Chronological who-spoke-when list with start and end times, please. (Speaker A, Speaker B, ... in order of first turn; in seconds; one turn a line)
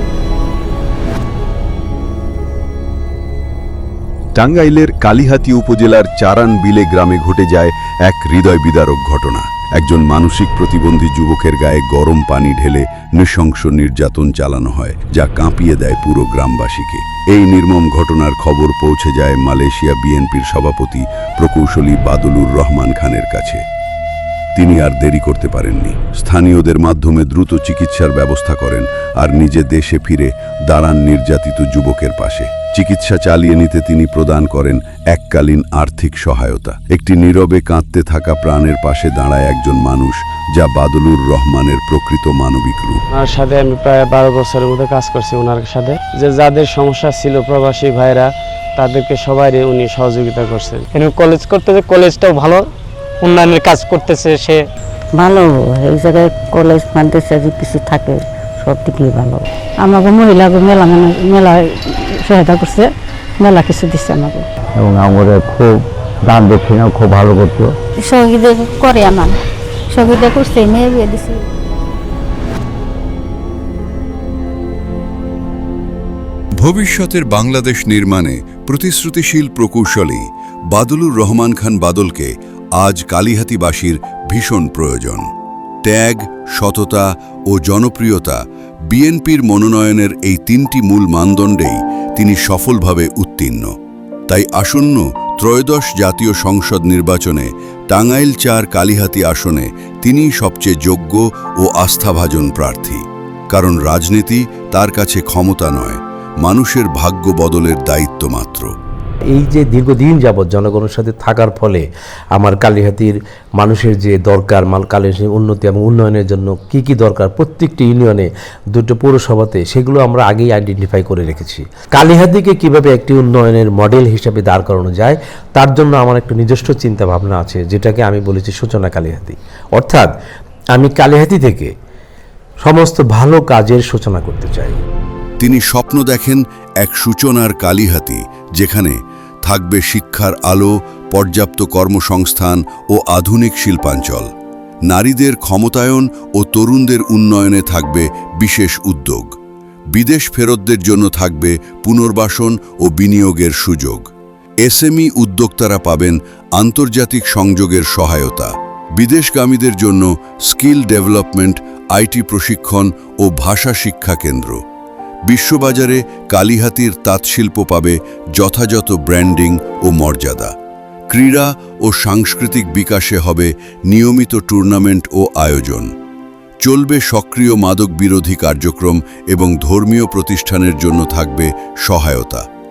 Speaker A: 4.3-23.6
Speaker A: 24.6-43.0
Speaker B: 43.2-48.2
Speaker B: 48.8-50.8
Speaker C: 50.9-52.7
Speaker C: 53.2-54.6
Speaker D: 55.1-64.5
Speaker E: 64.8-67.7
Speaker D: 68.0-69.4
Speaker D: 69.9-71.4
Speaker A: 76.6-85.3
Speaker A: 85.8-93.7
Speaker A: 94.3-108.7
Speaker F: 109.3-130.1
Speaker F: 130.7-131.7
Speaker F: 132.6-134.8
Speaker A: 135.4-144.3
Speaker A: 144.9-149.3
Speaker A: 149.9-154.1
Speaker A: 154.6-164.6
Speaker A: 165.3-170.5
Speaker A: 171.1-175.9
Speaker A: 176.6-182.4